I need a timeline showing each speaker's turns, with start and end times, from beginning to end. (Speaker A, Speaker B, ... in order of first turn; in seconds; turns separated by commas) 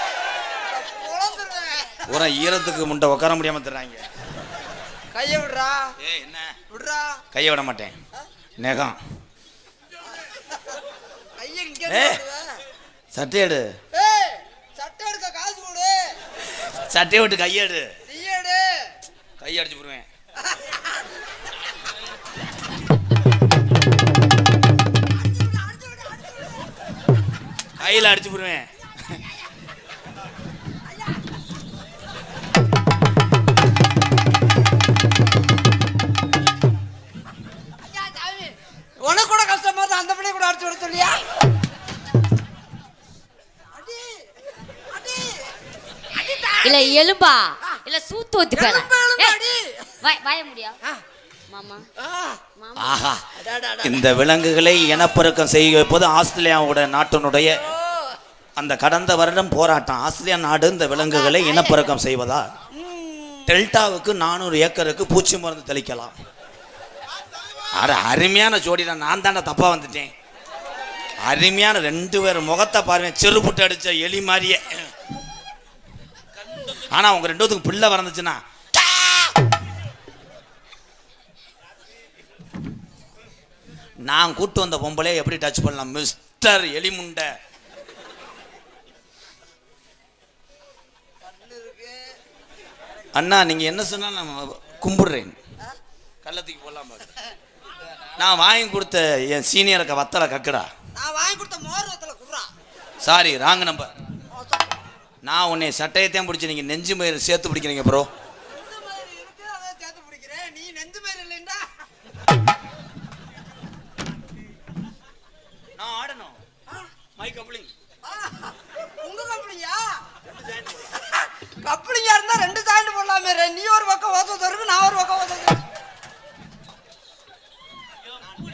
Speaker A: 0.6-2.3, Speaker B: 2.1-4.0, Speaker A: 5.1-5.9, Speaker B: 6.0-6.6, Speaker A: 6.7-7.2, Speaker B: 7.3-8.0, Speaker B: 8.6-9.0, Speaker A: 10.3-10.8, Speaker A: 11.4-12.5, Speaker B: 11.9-12.2, Speaker B: 13.1-13.7, Speaker A: 13.9-16.2, Speaker B: 16.6-17.9, Speaker A: 18.1-18.9, Speaker B: 19.4-20.1, Speaker A: 20.4-21.1, Speaker A: 25.1-26.7, Speaker B: 27.8-28.7, Speaker A: 27.8-28.1, Speaker A: 30.9-31.2, Speaker A: 37.8-41.2, Speaker A: 43.7-44.2, Speaker A: 44.9-45.5, Speaker A: 46.1-47.0, Speaker C: 46.6-49.4, Speaker A: 48.6-50.0, Speaker C: 50.0-50.8, Speaker C: 51.5-51.9, Speaker A: 52.0-52.4, Speaker C: 52.6-53.0, Speaker B: 52.8-53.3, Speaker A: 53.4-54.0, Speaker B: 53.8-57.6, Speaker B: 58.6-62.5, Speaker C: 61.3-61.8, Speaker A: 62.7-63.6, Speaker B: 63.5-66.2, Speaker B: 67.7-70.1, Speaker B: 71.2-74.9, Speaker B: 76.7-79.3, Speaker B: 84.0-87.3, Speaker A: 91.2-92.1, Speaker B: 93.1-95.4, Speaker B: 96.2-97.1, Speaker B: 98.2-100.7, Speaker A: 101.0-102.5, Speaker B: 103.0-103.9, Speaker A: 104.3-104.8, Speaker B: 105.2-108.1, Speaker A: 108.5-111.7, Speaker B: 115.8-116.4, Speaker B: 117.2-117.7, Speaker A: 118.0-120.0, Speaker A: 120.9-125.6